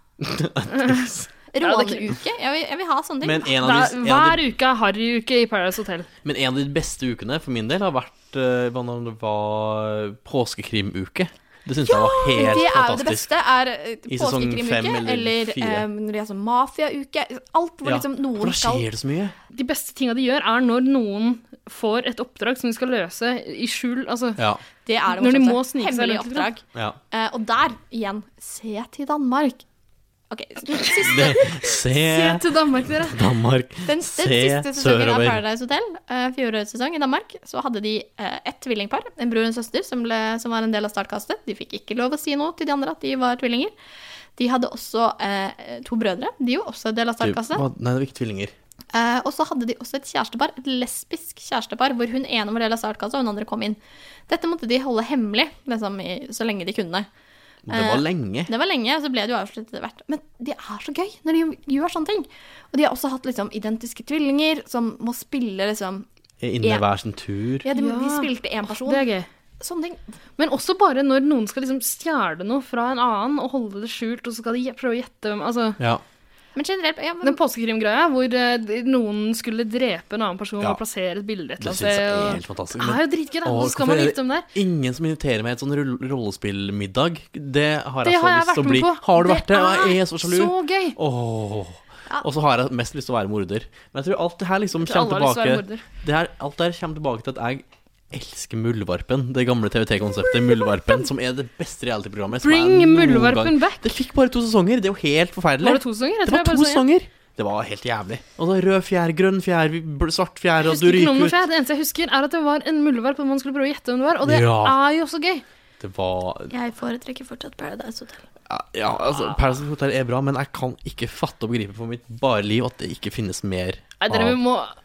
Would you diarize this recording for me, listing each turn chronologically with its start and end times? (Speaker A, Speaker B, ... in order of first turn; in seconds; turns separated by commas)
Speaker A: 0.2-1.3, Speaker B: 1.5-3.5, Speaker C: 1.6-2.1, Speaker A: 3.2-4.4, Speaker C: 3.6-6.1, Speaker A: 6.2-13.3, Speaker B: 11.9-18.9, Speaker A: 14.1-15.9, Speaker A: 17.9-19.4, Speaker C: 19.5-24.4, Speaker B: 24.9-29.6, Speaker C: 25.1-26.5, Speaker B: 30.3-31.5, Speaker A: 31.0-35.4, Speaker C: 31.2-33.2, Speaker B: 33.9-43.7, Speaker B: 44.4-47.6, Speaker A: 47.2-48.5, Speaker B: 48.9-57.1, Speaker A: 57.6-58.5, Speaker B: 57.7-66.1, Speaker A: 66.4-67.7, Speaker B: 67.6-69.1, Speaker C: 67.7-69.2, Speaker B: 69.6-70.0, Speaker C: 70.4-75.8, Speaker B: 76.6-77.4, Speaker C: 77.2-84.5, Speaker A: 81.6-111.4, Speaker C: 88.0-91.0, Speaker C: 94.8-95.8, Speaker C: 102.3-103.8, Speaker C: 105.6-106.8, Speaker C: 110.6-115.4, Speaker A: 114.2-114.8, Speaker A: 115.8-116.5, Speaker B: 116.5-118.2, Speaker A: 118.5-124.4, Speaker C: 124.0-124.7